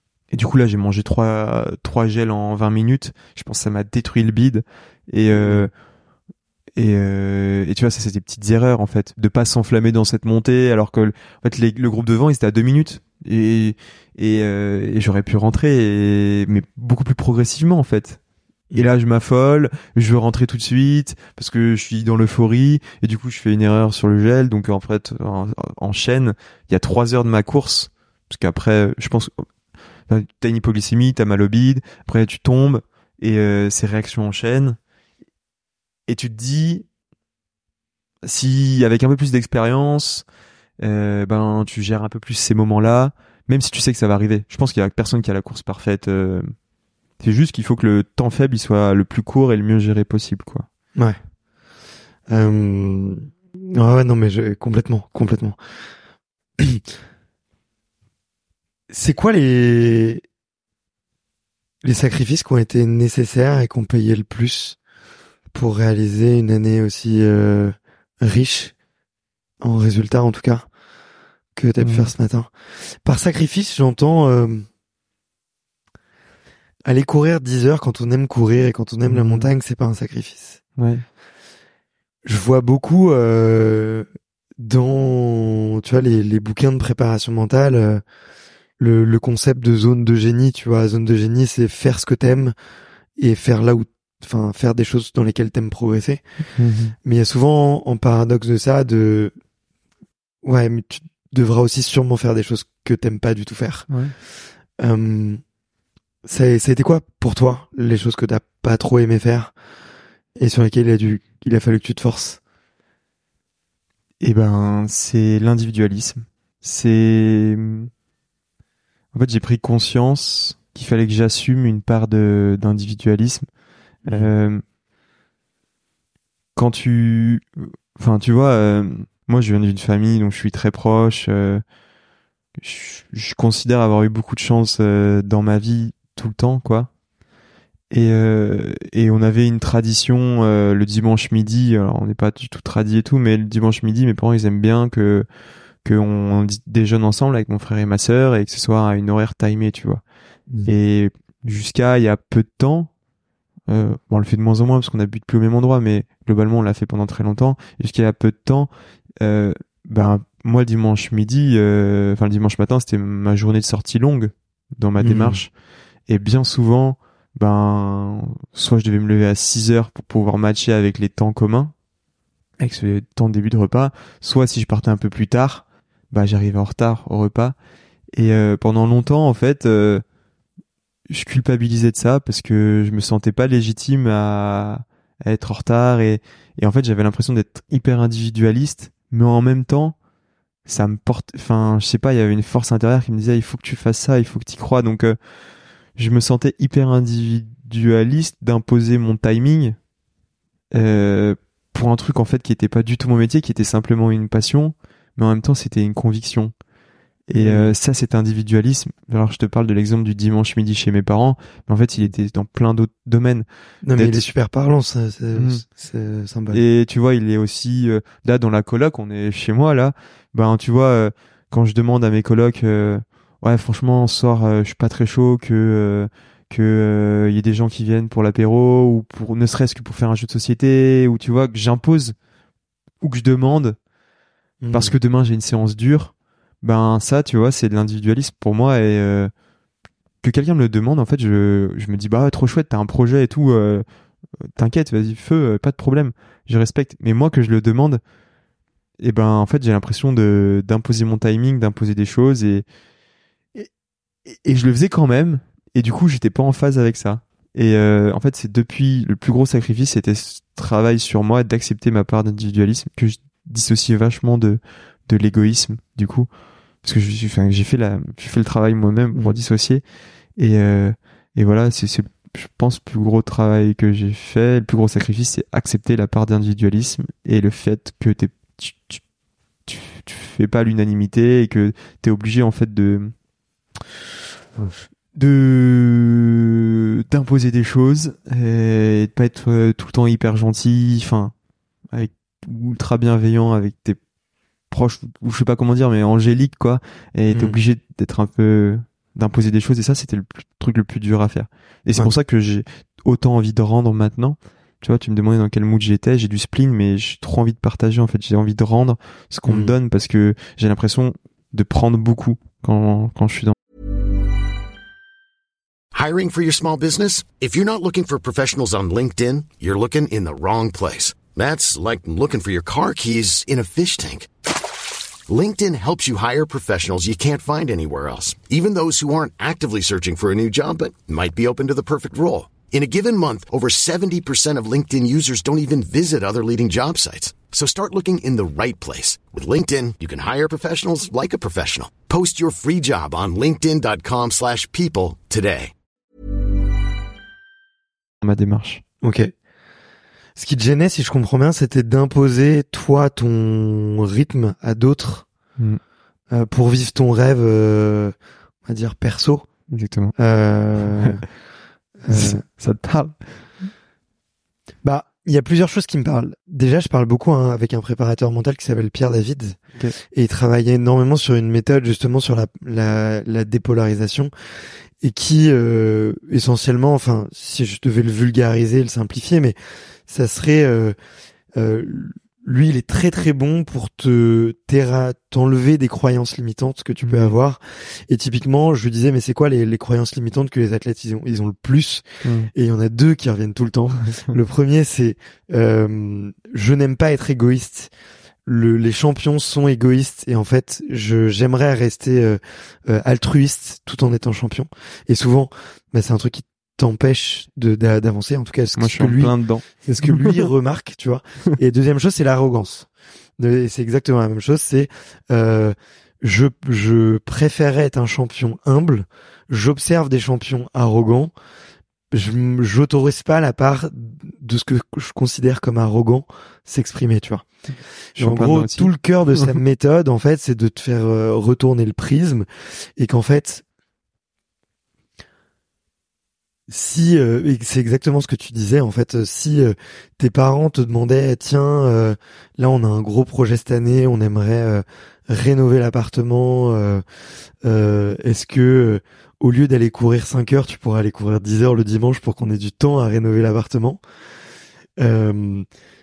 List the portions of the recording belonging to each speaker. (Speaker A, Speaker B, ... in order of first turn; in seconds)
Speaker A: 0.3-5.7, 6.8-18.2, 18.7-29.4, 30.1-34.8, 36.1-36.9, 38.2-40.2, 40.8-46.5, 47.2-50.7, 71.8-72.1, 79.1-79.5, 80.8-81.0, 96.6-97.0, 103.9-104.1, 114.2-117.9, 119.1-123.5, 124.1-124.6, 126.6-131.6, 132.6-136.9, 137.9-145.3, 145.8-150.0, 150.7-152.9, 153.7-165.5, 166.1-171.7, 172.6-177.6, 178.1-180.0, 181.1-189.9, 190.7-195.2, 195.9-199.8, 200.7-206.5, 207.3-214.2, 215.3-215.6, 216.5-232.1, 233.0-233.8, 234.7-239.3, 240.2-243.8, 244.6-248.0, 249.0-252.6, 254.3-266.3, 266.8-269.8, 270.4-279.0, 279.7-283.1, 285.1-291.3, 291.9-294.0, 294.7-313.6, 348.2-348.8, 359.7-360.1, 362.1-363.2, 387.0-387.3, 392.2-392.5, 408.8-410.3, 428.2-429.5
Speaker B: 5.3-5.7, 52.3-55.6, 58.9-60.2, 61.8-64.8, 65.5-68.7, 69.6-70.7, 71.6-72.5, 73.0-74.7, 76.8-80.6, 82.2-84.1, 84.6-88.0, 88.8-92.5, 93.2-96.2, 97.0-99.3, 100.4-103.9, 104.8-105.4, 106.2-109.5, 110.4-112.4, 165.0-165.4, 207.3-207.8, 213.8-216.6, 234.6-234.9, 309.5-309.7, 349.0-349.3, 350.4-355.3, 356.3-358.1, 358.6-359.5, 360.2-361.2, 362.0-362.4, 364.8-369.6, 370.1-374.3, 375.0-379.6, 380.1-380.9, 381.6-397.9, 398.4-412.9, 413.4-421.3, 422.1-427.4, 428.2-432.4, 433.0-433.6, 436.7-447.0, 447.6-454.0, 455.0-455.7
Speaker C: 315.9-324.3, 325.3-345.7